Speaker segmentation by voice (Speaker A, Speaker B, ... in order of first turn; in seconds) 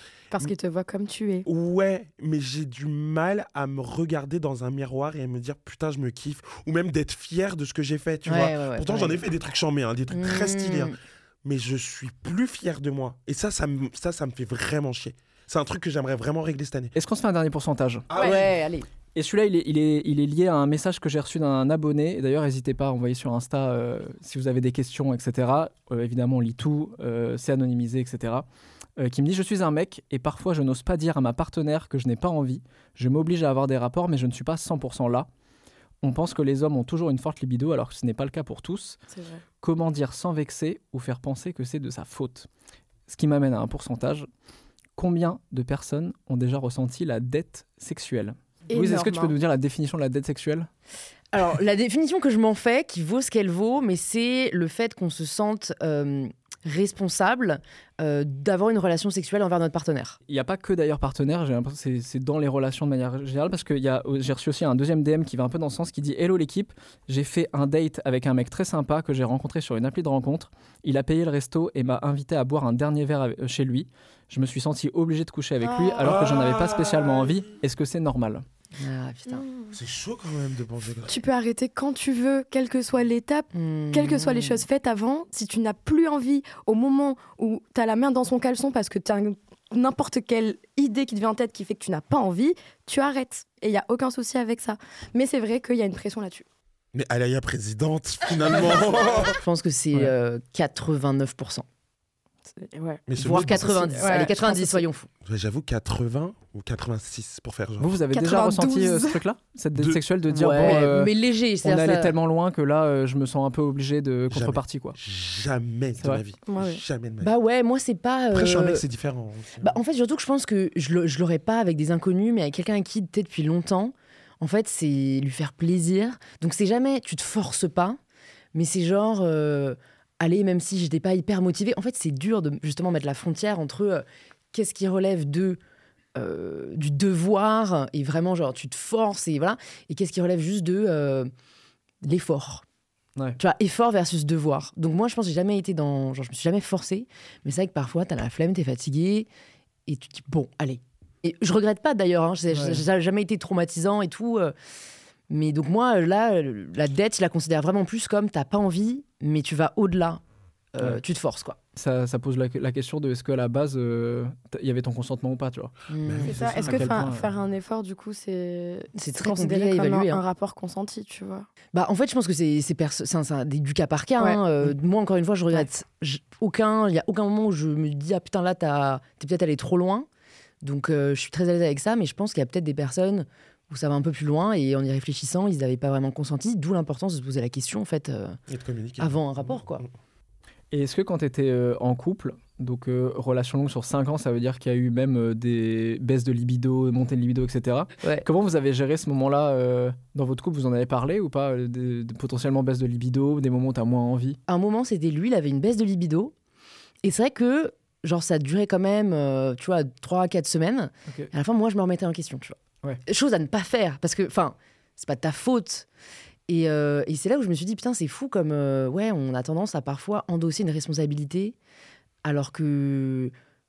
Speaker A: 0.3-1.5, 39.1-39.4, 48.7-49.4, 75.6-76.2, 79.3-79.8, 81.1-96.5, 102.5-104.8, 108.1-109.2, 116.5-116.8, 166.2-171.5
Speaker B: 1.5-16.9, 18.1-18.5, 76.0-77.5, 79.7-81.2, 96.9-99.4, 103.1-104.0, 105.2-108.0, 109.8-110.0, 114.3-117.3, 118.3-119.8, 166.0-166.9, 188.5-189.9
Speaker C: 8.3-9.2, 10.1-11.0, 18.1-18.9, 51.3-60.2, 78.8-79.4, 83.5-84.7, 99.3-101.7, 103.2-105.1, 110.3-112.2, 117.2-118.8, 119.6-128.0, 128.5-135.6, 136.2-141.3, 142.0-142.6, 143.4-149.3, 149.9-154.5, 155.3-160.2, 160.7-161.6, 165.9-166.4, 169.0-170.2, 171.7-180.1, 180.6-188.4, 189.0-189.8, 204.5-206.3, 207.0-215.9, 216.5-221.6, 222.2-223.3
Speaker D: 16.9-18.1, 19.1-28.5, 29.0-35.3, 36.0-39.0, 39.6-42.5, 43.1-44.3, 45.0-50.7, 60.3-78.5, 107.8-115.0, 152.5-152.8, 161.8-165.7, 166.5-167.3, 190.7-204.4